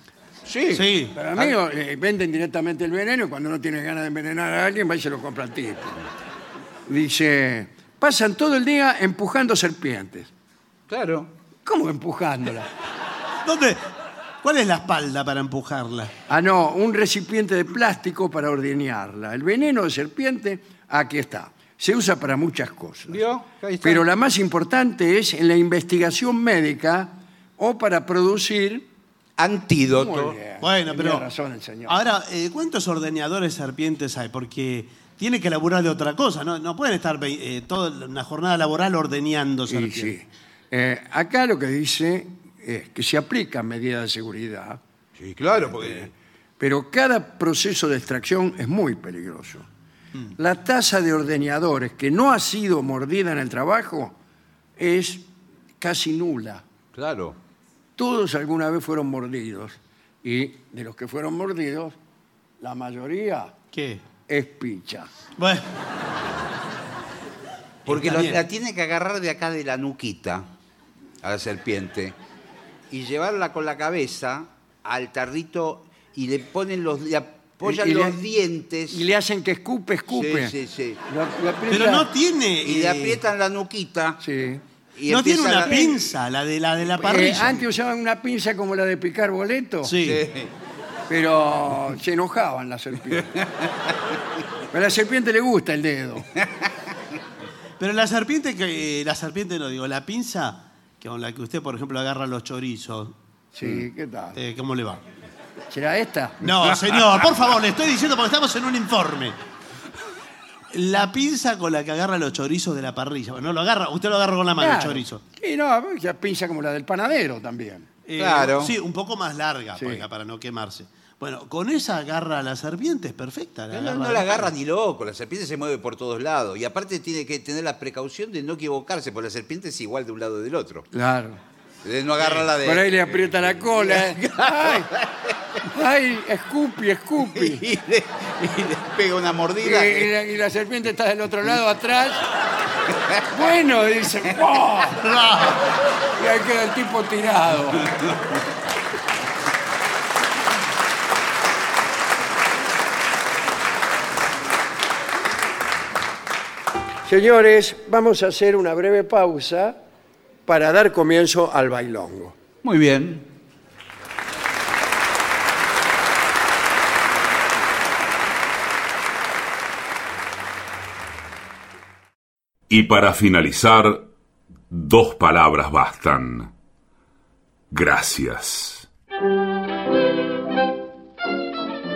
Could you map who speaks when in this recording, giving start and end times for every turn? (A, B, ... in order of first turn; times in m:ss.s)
0:00.4-0:01.6 A
0:00.7-0:01.2 B
0:01.1-0:06.0 C
0:06.9-0:10.3 C
0:10.9-0:11.3 A
0:11.6-0:12.7 C
0:13.4-0:13.9 B
0:14.4-0:16.1 B
0:16.3-0:23.2 C
0:23.1-0:24.0 A
0:23.8-0:28.8 C
0:29.4-0:30.4 A
0:29.9-0:32.0 C
0:30.6-0:31.3 B
0:31.9-0:40.1 B
0:39.7-0:44.8 C
0:45.2-0:46.1 A
0:45.6-0:49.7 C
0:50.4-0:54.1 C
0:54.8-0:55.3 C
0:55.8-0:56.6 C
0:56.9-0:57.4 A
0:58.0-1:02.0 C
1:02.6-1:03.5 C
1:03.7-1:04.0 B
1:04.3-1:05.1 C
1:05.4-1:05.7 B
1:07.8-1:10.5 A
1:07.9-1:08.4 B
1:11.2-1:12.2 A
1:12.9-1:19.0 A
1:17.6-1:18.2 C
1:18.9-1:20.5 C
1:20.1-1:21.0 A
1:21.1-1:22.1 C
1:21.7-1:23.2 B
1:22.6-1:24.2 A
1:24.2-1:24.6 C
1:25.0-1:26.2 A
1:25.1-1:27.6 B
1:27.0-1:30.0 C
1:29.8-1:30.2 B
1:30.0-1:30.5 A
1:31.1-1:33.4 C
1:34.7-1:36.3 C
1:37.8-1:43.2 B
1:43.5-1:44.4 C
1:44.3-1:45.0 B
1:45.7-1:46.5 C
1:46.4-1:49.4 B
1:50.7-1:55.2 B
1:54.6-1:57.9 C
1:58.0-2:04.5 B
1:58.2-1:58.7 A
1:59.8-2:00.0 C
2:03.7-2:10.9 A
2:10.9-2:11.4 C
2:11.8-2:15.3 A
2:12.6-2:14.9 C
2:15.7-2:17.7 C
2:17.3-2:20.1 A
2:19.6-2:22.3 C
2:23.2-2:25.1 C
2:25.0-2:25.7 B
2:26.2-2:27.9 C
2:37.0-2:39.8 C
2:40.5-2:42.3 C
2:42.6-2:43.3 A
2:52.7-2:54.1 D
2:54.7-2:56.5 D
2:57.7-2:58.8 D